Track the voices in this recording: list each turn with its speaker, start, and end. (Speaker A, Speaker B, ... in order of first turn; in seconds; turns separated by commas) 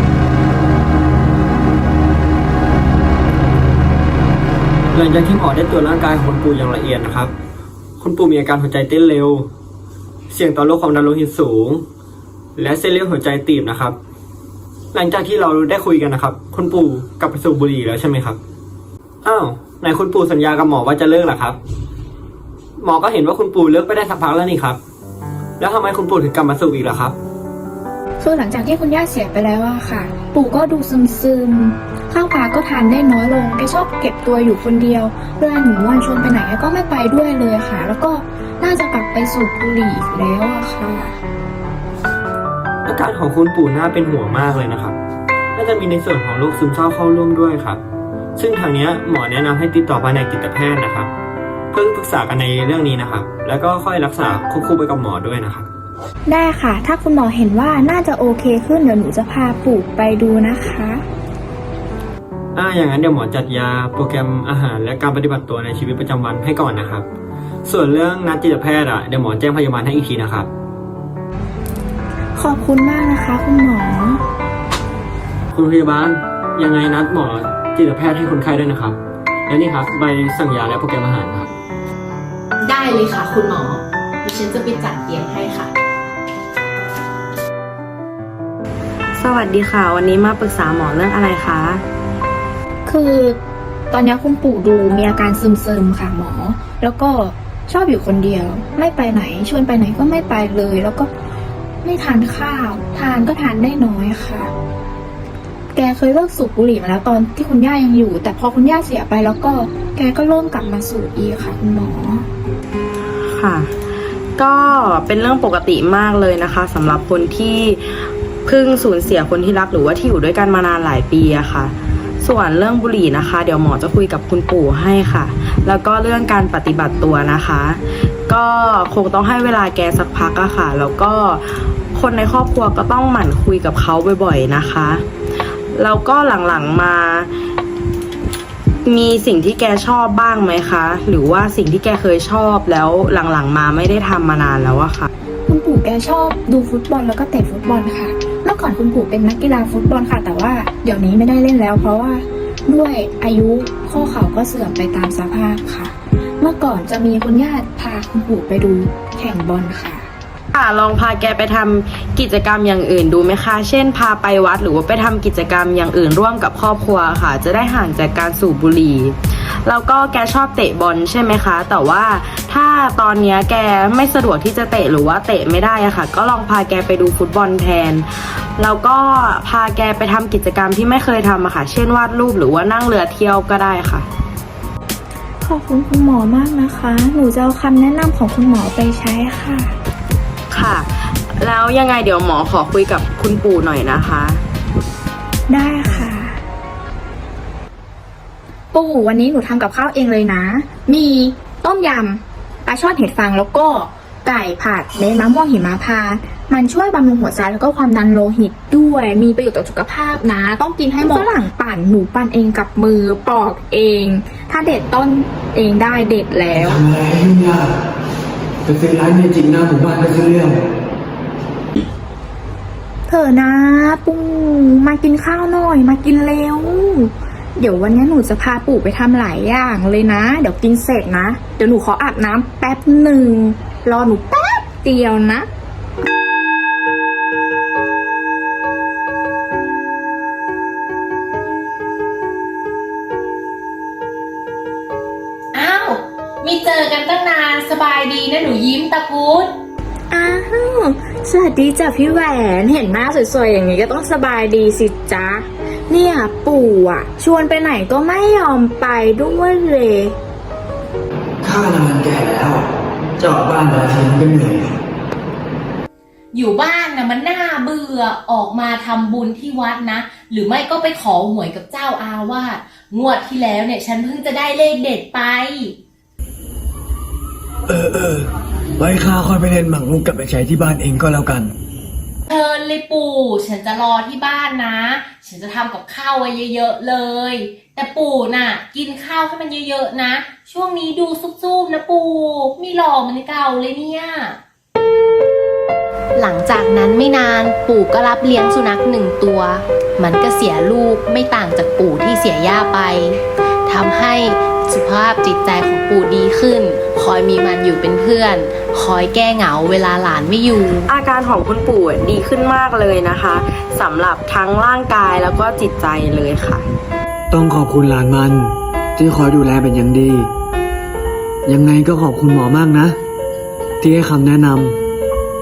Speaker A: 4.9-7.3, Speaker A: 8.0-9.5, Speaker A: 10.3-11.8, Speaker A: 12.6-14.0, Speaker A: 14.9-18.4, Speaker A: 19.2-21.6, Speaker A: 22.8-24.8, Speaker A: 25.6-27.1, Speaker B: 28.2-41.2, Speaker A: 42.9-45.0, Speaker A: 45.5-47.8, Speaker A: 48.4-51.1, Speaker A: 51.7-55.7, Speaker B: 56.3-61.0, Speaker A: 62.5-67.0, Speaker A: 67.7-70.5, Speaker B: 72.3-74.2, Speaker A: 75.5-79.0, Speaker A: 79.5-81.5, Speaker C: 82.6-85.7, Speaker D: 89.2-91.8, Speaker B: 92.8-93.4, Speaker B: 93.9-101.1, Speaker B: 101.8-104.5, Speaker B: 105.7-112.2, Speaker D: 113.3-113.7, Speaker D: 114.4-135.0, Speaker D: 135.7-137.3, Speaker D: 138.8-145.1, Speaker B: 145.5-160.1, Speaker D: 160.5-184.1, Speaker B: 185.4-189.7, Speaker D: 190.5-194.4, Speaker B: 195.5-196.4, Speaker B: 198.7-216.8, Speaker E: 216.5-217.7, Speaker E: 218.7-220.7, Speaker B: 223.1-235.4, Speaker C: 245.5-249.5, Speaker B: 250.1-260.1, Speaker E: 261.4-262.7, Speaker E: 263.2-264.8, Speaker C: 266.3-275.8, Speaker E: 277.7-281.5, Speaker C: 282.3-294.4, Speaker C: 296.1-310.9, Speaker D: 310.9-316.6, Speaker E: 317.3-320.3, Speaker E: 321.5-323.0, Speaker E: 323.8-324.8